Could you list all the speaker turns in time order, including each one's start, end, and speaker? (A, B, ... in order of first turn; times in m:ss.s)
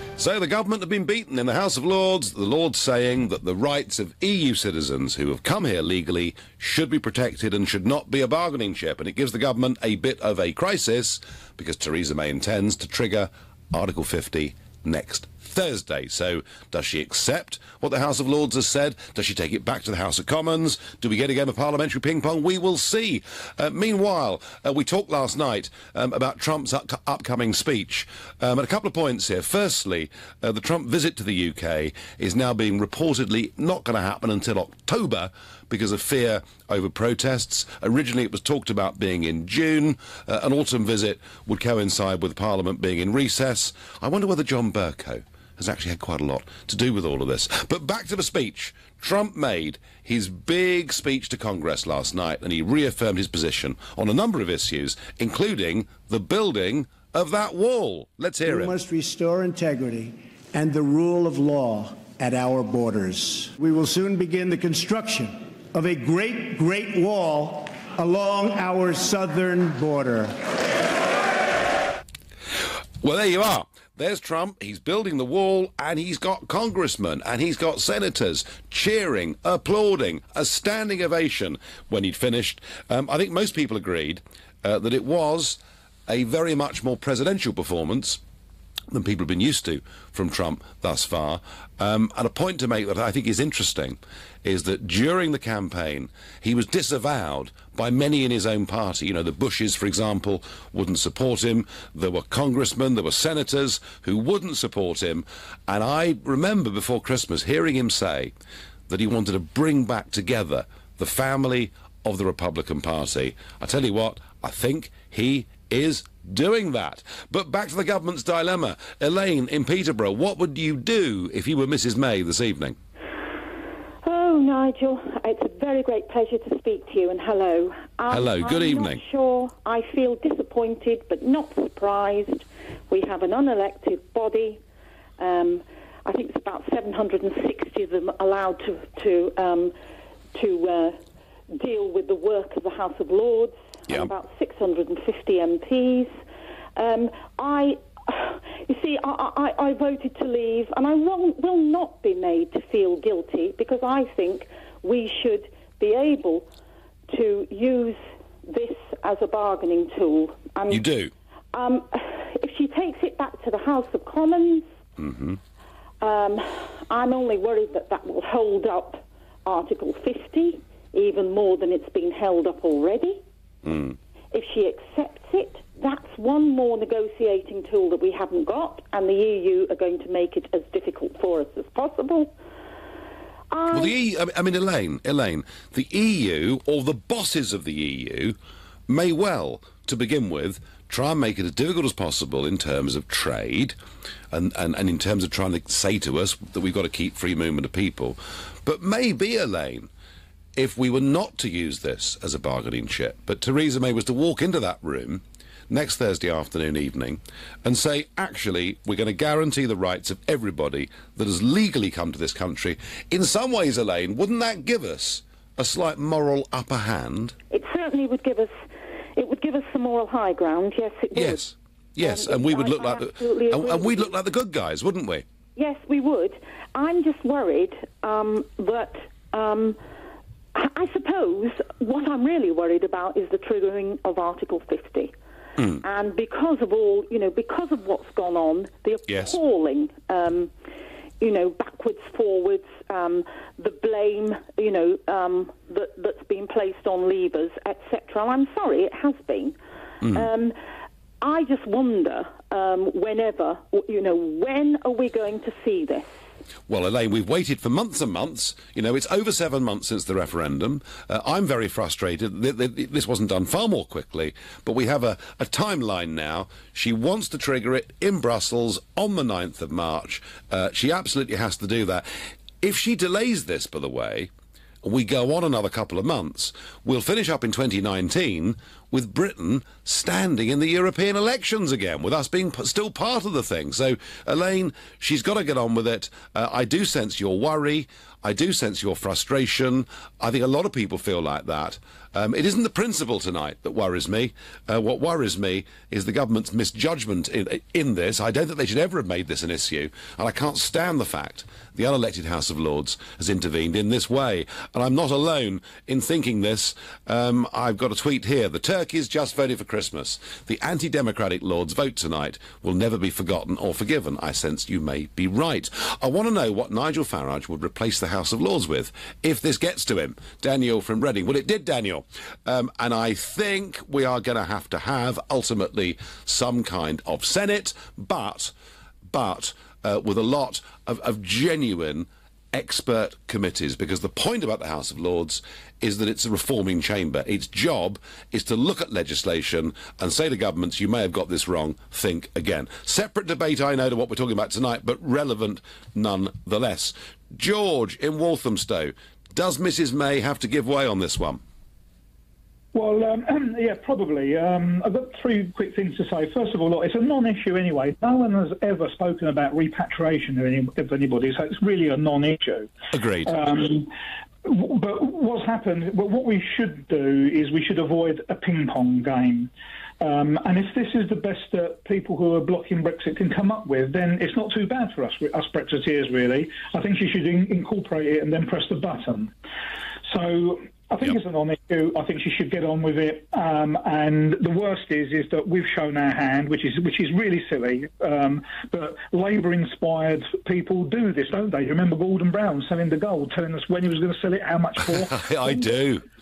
0:00.2-0:58.7 A
0:58.4-1:10.8 B
1:13.0-1:28.2 A
1:28.9-1:48.3 A
1:48.9-2:02.8 A
2:04.0-2:14.6 C
2:08.1-2:09.0 A
2:15.2-2:19.8 C
2:20.3-2:21.0 C
2:21.6-2:26.2 C
2:26.8-2:36.5 C
2:37.1-2:40.9 C
2:40.7-2:41.1 A
2:41.5-2:44.7 C
2:45.0-2:45.4 A
2:46.0-2:53.2 C
2:53.6-2:54.0 A
2:54.3-3:02.3 C
3:03.5-3:04.0 C
3:03.7-3:08.4 A
3:08.9-3:13.8 A
3:14.3-3:19.9 A
3:20.6-3:37.4 A
3:37.5-3:38.6 C
3:39.2-3:41.4 C
3:41.1-3:45.2 A
3:42.0-3:44.2 C
3:45.6-3:49.8 C
3:50.6-3:55.1 C
3:55.6-3:55.8 A
3:55.8-4:00.5 C
3:59.1-3:59.4 A
4:01.2-4:10.6 C
4:11.2-4:16.2 C
4:16.7-4:32.1 A
4:32.6-4:34.3 A
4:34.8-5:28.5 A
5:29.1-5:51.4 A
5:52.7-6:02.7 D
6:02.9-6:03.6 A
6:03.2-6:03.9 D
6:04.4-6:19.3 D
6:20.1-6:35.7 D
6:34.9-6:36.0 A